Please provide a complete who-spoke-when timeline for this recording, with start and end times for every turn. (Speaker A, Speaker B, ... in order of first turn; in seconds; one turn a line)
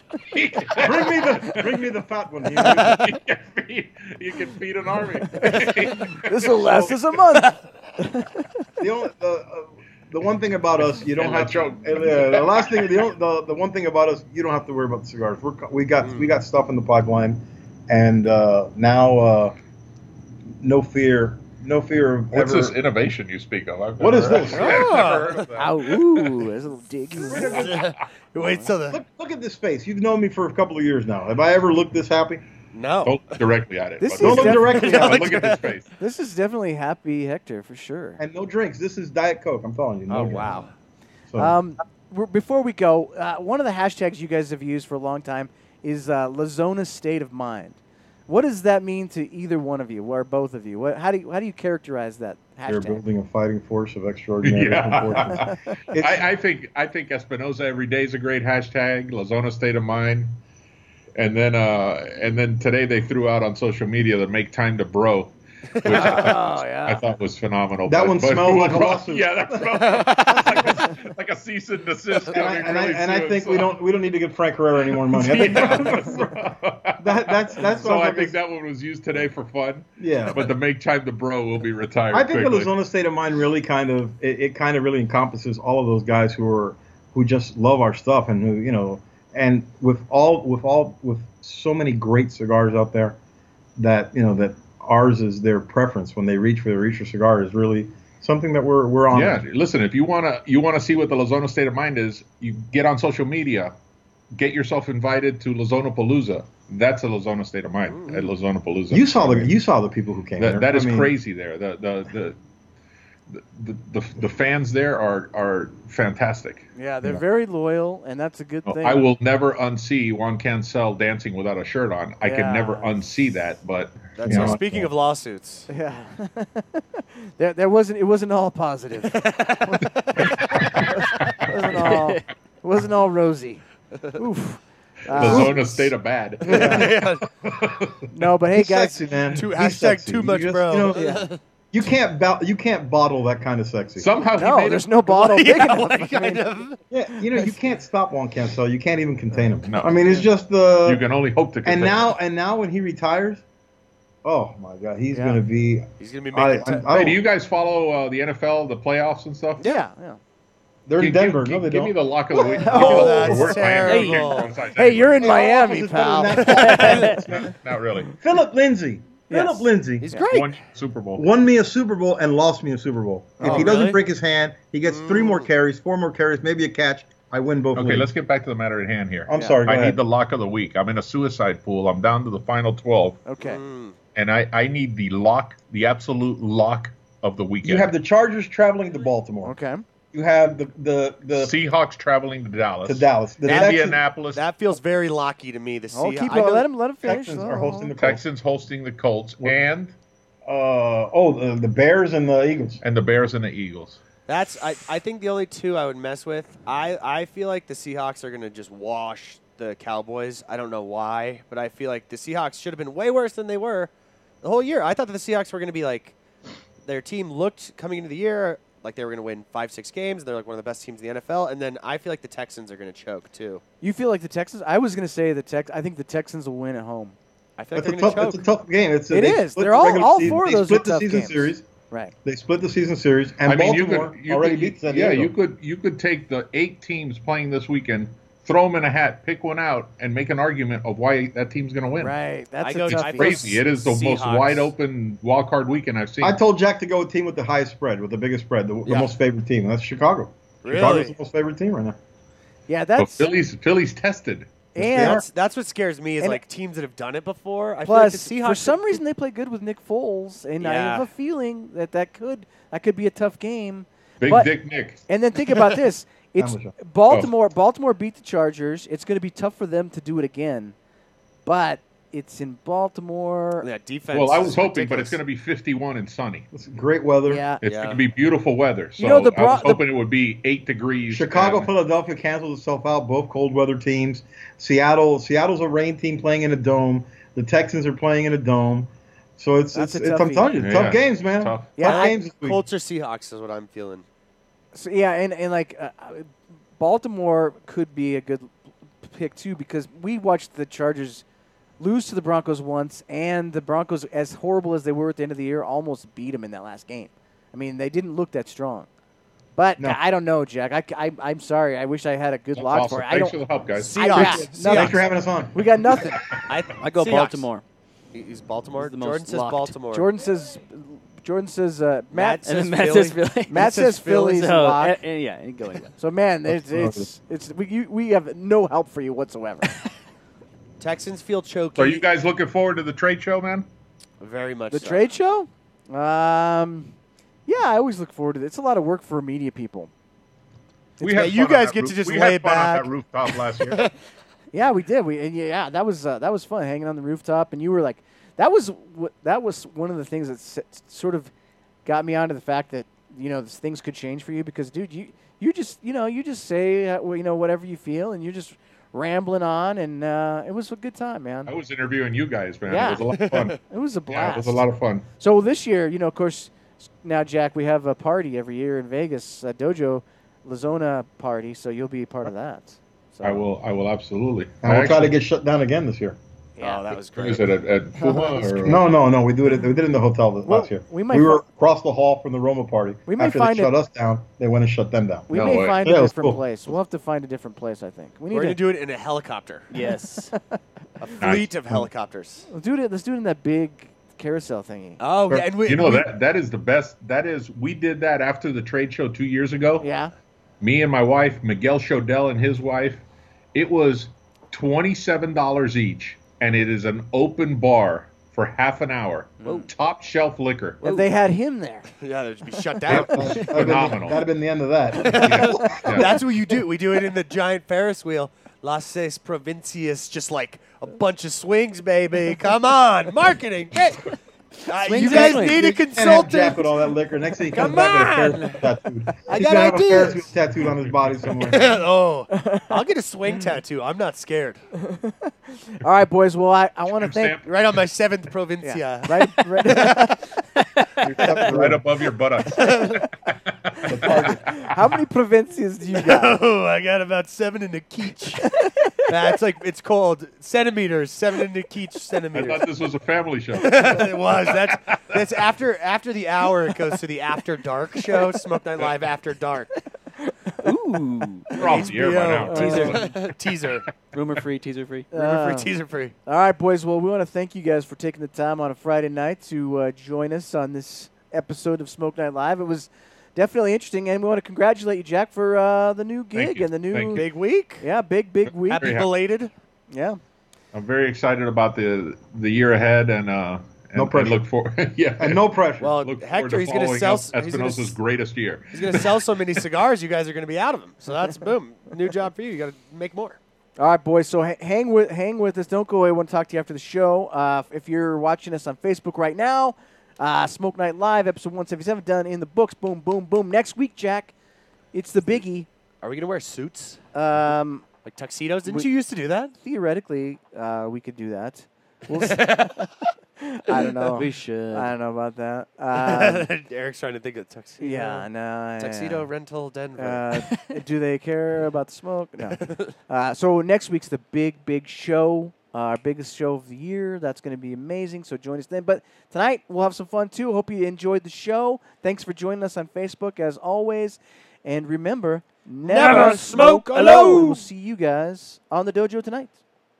Speaker A: 0.3-1.6
Speaker B: 0.7-3.1
Speaker A: 2.6-6.9
Speaker C: 5.4-8.4
Speaker B: 6.6-6.9
Speaker B: 8.8-19.5
Speaker A: 11.0-13.0
Speaker D: 16.0-16.3
Speaker B: 20.6-22.8
Speaker A: 22.3-26.0
Speaker B: 24.0-25.2
Speaker D: 24.3-25.5
Speaker C: 25.5-27.7
Speaker B: 27.2-27.9
Speaker D: 27.3-29.0
Speaker C: 28.4-28.7
Speaker B: 28.9-32.4
Speaker D: 32.7-33.4
Speaker A: 33.0-35.9
Speaker C: 34.0-35.3
Speaker B: 34.2-35.4
Speaker D: 34.6-35.8
Speaker C: 36.0-38.2
Speaker B: 38.2-40.6
Speaker D: 40.1-40.7
Speaker B: 41.3-41.5
Speaker C: 41.4-53.0
Speaker B: 52.6-56.3
Speaker A: 54.4-60.4
Speaker A: 61.1-73.7
Speaker C: 65.8-67.0
Speaker B: 67.8-70.6
Speaker B: 72.3-76.5
Speaker A: 75.1-82.7
Speaker B: 77.0-78.3
Speaker B: 80.0-80.5
Speaker B: 82.1-93.2
Speaker B: 93.8-99.4
Speaker A: 99.1-103.7
Speaker A: 104.3-109.5
Speaker D: 107.9-108.3
Speaker B: 108.9-111.1
Speaker A: 110.4-112.4
Speaker A: 113.3-116.7
Speaker C: 116.8-119.1
Speaker A: 118.7-124.6
Speaker C: 122.2-123.0
Speaker D: 124.2-125.7
Speaker B: 124.2-124.9
Speaker C: 125.7-133.6
Speaker D: 129.1-129.8
Speaker A: 130.6-131.5
Speaker E: 131.9-132.2
Speaker C: 134.1-135.6
Speaker A: 135.1-138.0
Speaker B: 135.2-135.9
Speaker D: 136.4-137.3
Speaker C: 136.5-136.9
Speaker C: 138.1-139.1
Speaker B: 138.5-144.1
Speaker D: 139.3-141.4
Speaker C: 140.9-141.3
Speaker A: 144.0-144.9
Speaker C: 144.3-146.4
Speaker D: 145.1-146.8
Speaker B: 146.9-151.1
Speaker A: 149.7-150.2
Speaker A: 150.8-152.1
Speaker B: 151.6-153.4
Speaker B: 154.2-157.2
Speaker C: 155.1-155.4
Speaker D: 156.0-156.9
Speaker A: 156.9-159.6
Speaker C: 159.6-160.2
Speaker B: 160.9-161.9
Speaker A: 161.0-165.4
Speaker C: 162.3-167.1
Speaker D: 162.4-164.6
Speaker B: 162.7-163.4
Speaker E: 163.9-164.3
Speaker B: 165.2-167.5
Speaker D: 166.4-167.0
Speaker A: 167.3-168.1
Speaker B: 168.2-170.1
Speaker C: 169.3-170.3
Speaker D: 170.0-170.6
Speaker A: 170.3-171.2
Speaker B: 171.1-178.1
Speaker C: 173.4-173.9
Speaker D: 173.4-173.9
Speaker E: 173.6-173.9
Speaker D: 174.8-175.5
Speaker A: 177.7-183.2
Speaker B: 179.3-180.0
Speaker C: 179.3-179.6
Speaker C: 183.2-183.6
Speaker D: 183.4-183.9
Speaker A: 184.1-187.9
Speaker B: 187.6-189.6
Speaker C: 189.4-189.8
Speaker B: 190.1-191.6
Speaker A: 191.3-194.4
Speaker B: 192.8-194.0
Speaker D: 193.4-196.7
Speaker C: 195.9-197.9
Speaker B: 197.0-198.2
Speaker A: 198.0-199.9
Speaker B: 200.5-202.8
Speaker A: 202.8-204.0
Speaker D: 204.3-213.9
Speaker D: 214.4-216.2
Speaker D: 216.8-223.6
Speaker C: 223.8-227.2
Speaker D: 227.6-228.4
Speaker B: 227.7-231.7
Speaker C: 229.1-232.1
Speaker B: 232.2-235.3
Speaker A: 233.4-242.1
Speaker C: 242.0-243.5
Speaker D: 242.6-244.7
Speaker A: 242.9-246.4
Speaker B: 246.2-252.0
Speaker D: 248.8-249.1
Speaker D: 250.6-251.1
Speaker C: 252.7-253.3
Speaker A: 253.0-254.5
Speaker C: 254.7-255.2
Speaker B: 254.8-255.2
Speaker D: 254.9-259.0
Speaker C: 257.8-264.5
Speaker D: 260.6-261.1
Speaker A: 264.2-265.0
Speaker C: 265.1-270.7
Speaker B: 266.4-266.7
Speaker C: 271.4-273.7
Speaker D: 273.6-275.2
Speaker A: 274.1-276.5
Speaker B: 276.5-277.4
Speaker C: 277.3-277.6
Speaker A: 277.6-281.7
Speaker D: 277.6-278.0
Speaker C: 279.0-279.8
Speaker B: 281.1-292.6
Speaker C: 289.7-290.6
Speaker A: 290.6-291.7
Speaker C: 291.8-292.2
Speaker D: 291.8-294.0
Speaker C: 294.7-301.2
Speaker C: 301.8-308.9
Speaker C: 309.6-313.4
Speaker A: 312.6-314.4
Speaker D: 313.8-315.2
Speaker C: 313.9-315.0
Speaker B: 314.1-315.6
Speaker C: 315.5-316.2
Speaker D: 316.4-317.4
Speaker E: 316.7-317.6
Speaker D: 318.1-320.1
Speaker E: 318.7-319.8
Speaker C: 319.9-322.5
Speaker D: 322.1-323.2
Speaker E: 322.4-325.9
Speaker C: 323.5-325.0
Speaker C: 326.0-329.7
Speaker B: 326.6-327.1
Speaker D: 330.8-332.1
Speaker A: 331.8-333.7
Speaker D: 334.2-335.1
Speaker C: 334.7-336.9
Speaker C: 337.5-339.9
Speaker A: 341.0-343.8
Speaker C: 341.0-341.2
Speaker D: 341.0-343.9
Speaker C: 344.5-351.3
Speaker C: 351.9-361.5
Speaker A: 361.5-365.1
Speaker C: 362.7-363.1
Speaker D: 363.0-363.6
Speaker C: 363.6-364.6
Speaker C: 365.2-373.4
Speaker A: 373.2-375.1
Speaker B: 374.6-376.2
Speaker C: 376.6-376.9
Speaker D: 376.6-377.6
Speaker A: 377.1-378.8
Speaker C: 377.9-378.8
Speaker B: 378.6-386.4
Speaker C: 380.4-381.4
Speaker C: 383.1-383.7
Speaker C: 385.3-388.6
Speaker A: 385.3-385.8
Speaker D: 388.3-389.7
Speaker E: 389.7-390.3
Speaker D: 391.0-392.5
Speaker A: 391.2-391.5
Speaker C: 392.5-395.0
Speaker D: 395.0-396.1
Speaker A: 395.6-399.9
Speaker C: 399.8-400.1
Speaker A: 400.6-410.8
Speaker E: 409.4-409.7
Speaker E: 410.8-411.1
Speaker C: 410.8-411.9
Speaker D: 412.0-413.5
Speaker A: 412.9-414.2
Speaker B: 412.9-415.6
Speaker D: 415.0-424.1
Speaker A: 415.1-416.2
Speaker D: 424.6-426.9
Speaker C: 424.8-425.8
Speaker E: 425.0-425.6
Speaker B: 425.9-431.8
Speaker D: 427.5-428.7
Speaker D: 429.2-430.3
Speaker A: 430.6-431.4
Speaker D: 431.4-434.6
Speaker C: 432.3-432.8
Speaker C: 434.8-437.4
Speaker A: 436.9-437.5
Speaker D: 437.4-440.2
Speaker C: 438.6-440.2
Speaker C: 441.0-441.4
Speaker B: 441.1-441.8
Speaker A: 441.1-444.1
Speaker D: 442.5-443.1
Speaker B: 443.9-444.5
Speaker C: 444.6-446.4
Speaker D: 445.9-452.7
Speaker A: 452.3-455.2
Speaker D: 453.6-459.7
Speaker E: 460.6-461.8
Speaker C: 461.5-461.9
Speaker A: 461.5-463.1
Speaker D: 461.6-463.9
Speaker C: 462.5-462.9
Speaker E: 462.5-463.1
Speaker E: 464.1-465.1
Speaker C: 465.1-465.7
Speaker D: 465.1-466.1
Speaker C: 466.2-477.3
Speaker A: 476.3-477.2
Speaker D: 477.1-477.8
Speaker C: 477.8-478.9
Speaker D: 478.6-479.5
Speaker A: 478.8-479.1
Speaker C: 479.9-480.2
Speaker A: 480.7-485.4
Speaker B: 483.9-484.4
Speaker B: 485.2-485.9
Speaker D: 485.8-487.9
Speaker A: 486.0-489.1
Speaker D: 488.7-493.4
Speaker C: 493.8-504.3
Speaker C: 504.9-505.7
Speaker D: 506.0-507.0
Speaker C: 507.1-507.8
Speaker D: 508.0-509.5
Speaker C: 509.6-512.9
Speaker D: 512.2-512.8
Speaker C: 513.4-516.5
Speaker E: 514.1-514.9
Speaker D: 515.9-518.2
Speaker C: 517.8-519.3
Speaker D: 518.8-520.3
Speaker C: 520.0-539.5
Speaker D: 522.6-522.9
Speaker D: 535.9-537.6